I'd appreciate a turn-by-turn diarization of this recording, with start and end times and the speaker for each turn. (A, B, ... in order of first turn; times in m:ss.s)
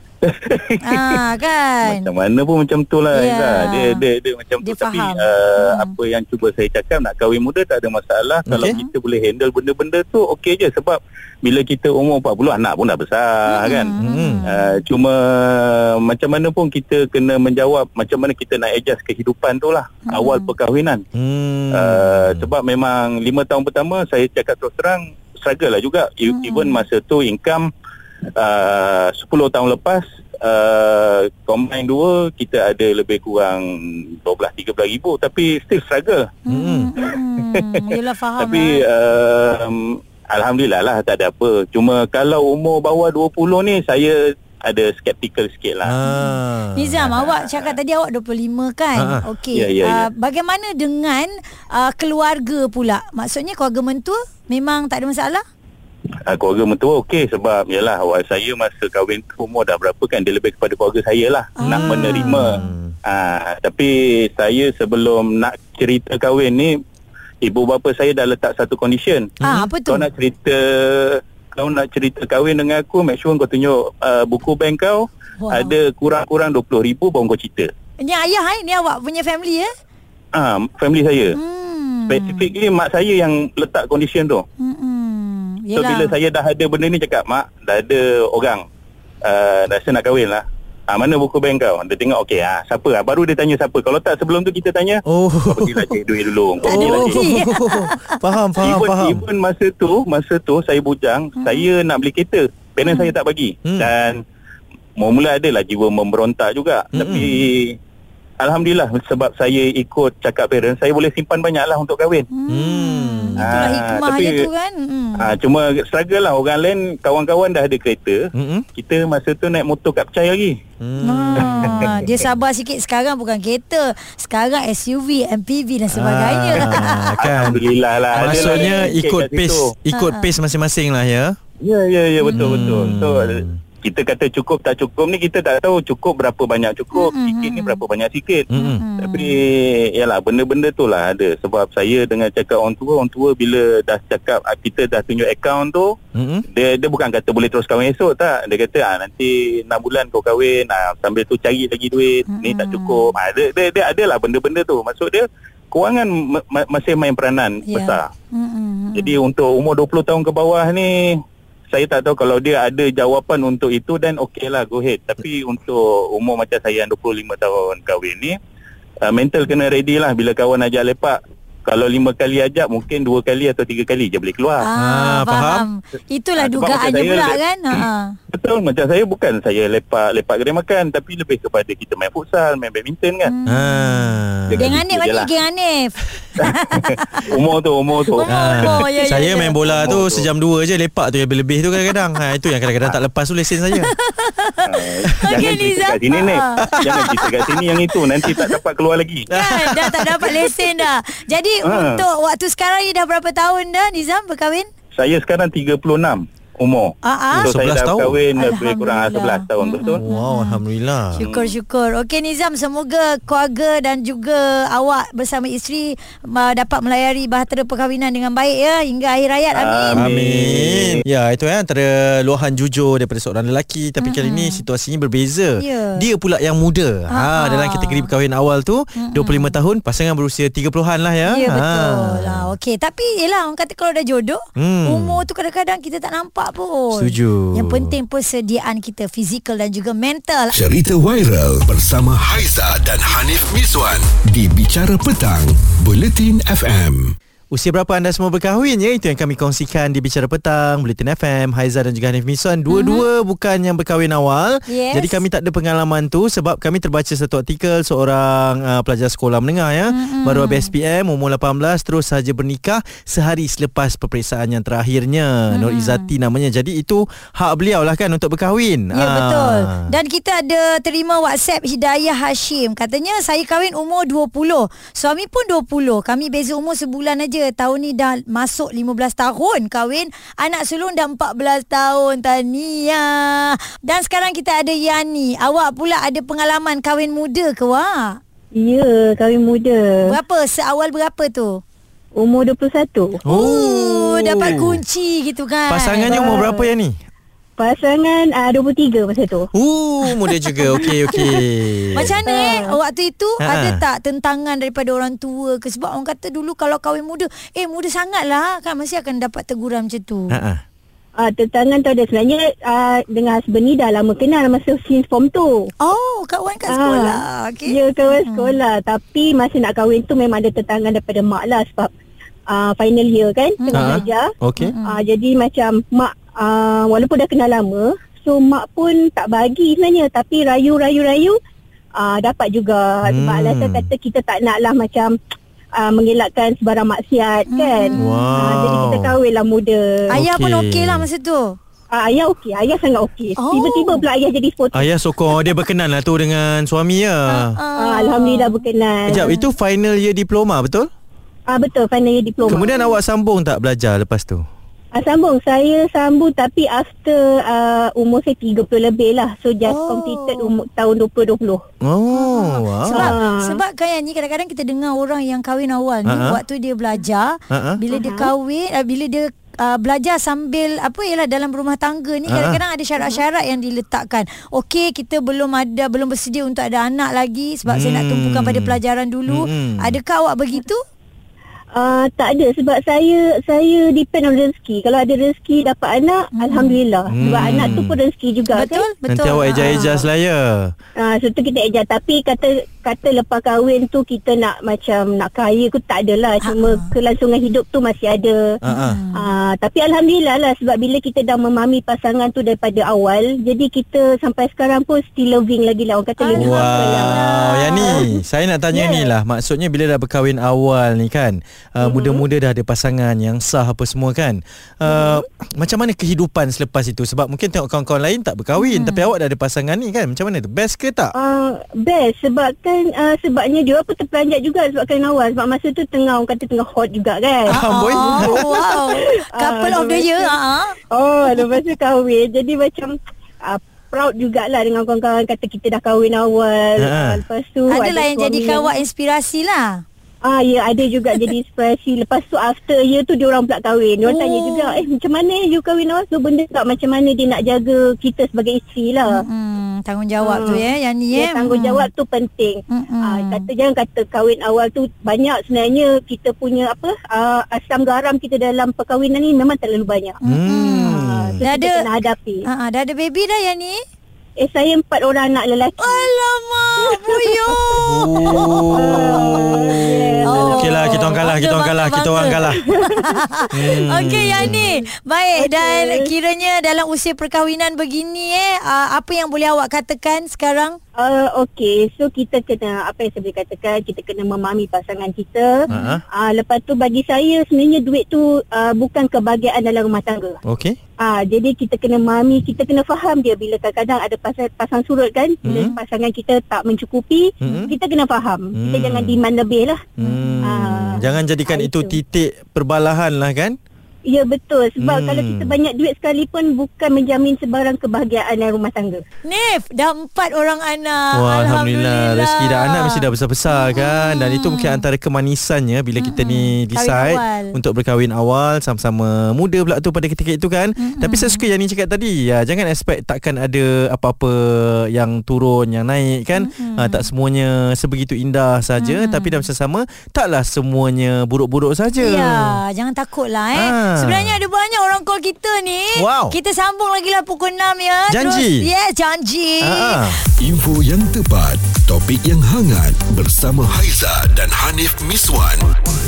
0:00.2-0:01.2 A
0:00.8-0:02.1 B
0:01.8-0:21.0 A
0:03.2-0:04.0 B
0:04.6-0:05.9 B
0:08.5-0:08.8 C
0:08.5-0:08.9 B
0:13.5-0:14.8 B
0:14.0-0:14.4 C
0:20.1-0:20.5 B
0:21.2-0:22.5 C
0:21.7-0:27.7 A
0:26.3-0:26.8 B
0:28.4-0:36.3 A
0:36.5-0:38.8 B
0:36.5-0:36.9 C
0:38.4-0:46.0 A
0:45.8-0:47.2 C
0:46.0-0:55.4 B
0:47.1-0:47.8 A
0:49.0-0:49.3 C
0:49.5-0:50.1 A
0:56.3-1:06.7 A
1:01.6-1:02.7 B
1:01.6-1:03.0 C
1:07.4-1:09.3 A
1:09.4-1:09.7 C
1:09.4-1:10.1 B
1:09.9-1:17.7 A
1:15.4-1:15.7 B
1:18.0-1:19.7 B
1:20.4-1:21.4 A
1:21.4-1:22.5 B
1:22.1-1:24.4 A
1:24.6-1:26.2 B
1:25.8-1:28.6 A
1:29.2-1:37.4 A
1:35.1-1:35.9 C
1:36.6-1:39.2 C
1:36.6-1:38.2 B
1:38.6-1:44.2 A
1:41.4-1:41.7 B
1:42.8-1:43.1 B
1:45.0-1:47.8 A
1:46.9-1:47.4 C
1:48.4-1:52.3 A
1:52.3-1:55.3 B
1:52.5-1:53.7 C
1:53.4-1:54.5 A
1:55.2-1:58.2 A
1:58.4-1:58.6 C
1:58.8-2:00.6 A
2:00.8-2:02.2 C
2:01.0-2:07.2 B
2:01.4-2:01.8 A
2:05.9-2:07.6 C
2:06.6-2:09.7 A
2:08.1-2:11.4 C
2:08.4-2:08.9 B
2:09.9-2:10.3 B
2:11.6-2:18.5 A
2:12.2-2:13.0 B
2:12.3-2:13.6 C
2:16.9-2:17.8 B
2:18.5-2:18.8 C
2:18.5-2:19.4 B
2:19.0-2:26.0 A
2:26.2-2:26.4 C
2:26.5-2:38.0 A
2:32.3-2:33.1 B
2:37.7-2:39.2 B
2:39.0-2:41.2 A
2:41.7-2:48.4 A
2:49.0-2:54.7 A
2:54.6-2:58.2 B
2:54.8-2:55.7 C
2:56.4-3:03.3 A
3:03.3-3:07.2 B
3:03.5-3:04.8 C
3:04.5-3:05.3 A
3:06.4-3:10.3 A
3:08.2-3:09.8 B
3:08.2-3:13.9 C
3:13.8-3:14.6 B
3:14.6-3:19.3 A
3:15.2-3:16.8 B
3:16.7-3:17.5 C
3:19.3-3:20.3 C
3:19.3-3:24.7 B
3:21.6-3:22.0 A
3:25.0-3:30.0 A
3:27.0-3:27.5 B
3:27.3-3:28.2 C
3:28.4-3:30.6 B
3:29.9-3:31.3 C
3:31.2-3:40.1 B
3:31.2-3:31.5 A
3:39.6-3:41.0 A
3:39.9-3:52.5 C
3:44.0-3:44.6 B
3:45.6-3:46.0 B
3:47.1-3:48.1 B
3:49.0-3:49.6 B
3:51.3-4:00.6 B
3:54.6-3:55.2 C
3:56.9-3:58.0 C
4:00.6-4:07.2 D
4:07.5-4:29.9 C
4:12.7-4:13.1 B
4:14.7-4:15.2 B
4:19.9-4:20.7 B
4:25.5-4:26.1 B
4:28.9-4:48.2 B
4:48.5-4:50.2 E
4:50.1-4:51.6 B
4:52.2-4:53.2 E
4:53.3-4:54.8 C
4:53.3-4:56.1 B
4:55.7-4:57.0 C
4:56.1-4:56.6 E
4:57.6-4:59.5 E
4:59.5-5:02.2 C
5:02.0-5:10.4 B
5:02.2-5:02.8 E
5:03.4-5:03.8 C
5:10.3-5:10.6 C
5:11.2-5:15.7 E
5:15.8-5:18.6 B
5:16.7-5:21.9 E
5:22.5-5:31.4 E
5:23.6-5:24.0 B
5:23.7-5:24.7 C
5:24.6-5:25.0 B
5:32.0-5:35.1 E
5:33.1-5:33.9 C
5:35.8-5:40.1 E
5:37.5-5:38.4 B
5:38.0-5:39.1 C
5:40.1-5:41.6 B
5:40.1-5:41.1 C
5:41.9-5:44.9 E
5:43.4-5:44.0 B
5:44.7-5:47.6 C
5:47.3-5:48.6 B
5:47.8-5:49.3 E
5:49.1-5:50.9 C
5:51.5-5:52.7 E
5:52.5-5:53.0 B
5:52.5-5:54.4 C
5:54.9-6:01.6 E
5:59.7-6:00.5 B
6:01.8-6:03.2 C
6:02.1-6:20.8 B
6:02.9-6:03.6 E
6:06.0-6:06.4 C
6:07.5-6:07.8 C
6:07.9-6:08.3 E
6:12.3-6:12.6 C
6:17.7-6:20.0 C
6:21.8-6:28.9 E
6:26.4-6:27.7 B
6:27.1-6:28.0 C
6:28.5-6:30.0 B
6:29.1-6:30.7 C
6:31.0-6:38.5 E
6:36.4-6:36.9 B
6:38.7-6:39.0 C
6:38.7-6:39.2 B
6:39.1-6:48.1 E
6:46.2-6:48.0 B
6:46.4-7:01.1 C
6:48.7-6:49.1 E
6:51.8-6:52.2 E
6:58.6-6:59.1 B
7:01.2-7:10.4 E
7:07.5-7:08.4 C
7:07.5-7:10.8 B
7:10.9-7:18.7 E
7:16.8-7:17.2 C
7:17.7-7:19.8 B
7:20.2-7:29.2 E
7:24.1-7:24.8 B
7:29.1-7:31.8 B
7:30.2-7:40.2 E
7:32.7-7:33.4 B
7:40.3-7:41.8 B
7:40.3-7:41.3 C
7:40.9-7:42.5 E
7:42.4-7:43.8 B
7:44.4-7:46.2 E
7:45.8-7:49.4 B
7:46.8-7:51.2 E
7:47.8-7:52.6 C
7:50.2-8:00.8 B
7:52.6-7:53.7 E
7:53.5-7:54.7 C
7:54.7-7:56.1 E
8:01.0-8:10.4 E
8:05.7-8:06.0 C
8:10.5-8:10.8 C
8:11.0-8:19.8 E
8:15.4-8:15.8 C
8:17.4-8:17.7 C
8:17.4-8:17.7 B
8:18.6-8:19.2 C
8:20.0-8:23.6 C
8:20.0-8:20.4 B
8:20.4-8:22.0 E
8:24.1-8:29.0 E
8:24.8-8:25.5 C
8:29.2-8:34.8 B
8:31.1-8:52.6 C
8:36.0-8:37.6 B
8:40.8-8:41.4 B
8:46.4-8:47.0 B
8:48.8-8:49.4 B
8:52.0-9:00.0 B
8:53.5-8:54.4 C
8:56.0-8:56.4 C
8:58.1-8:58.7 C
8:59.6-9:00.2 C
9:00.4-9:05.7 D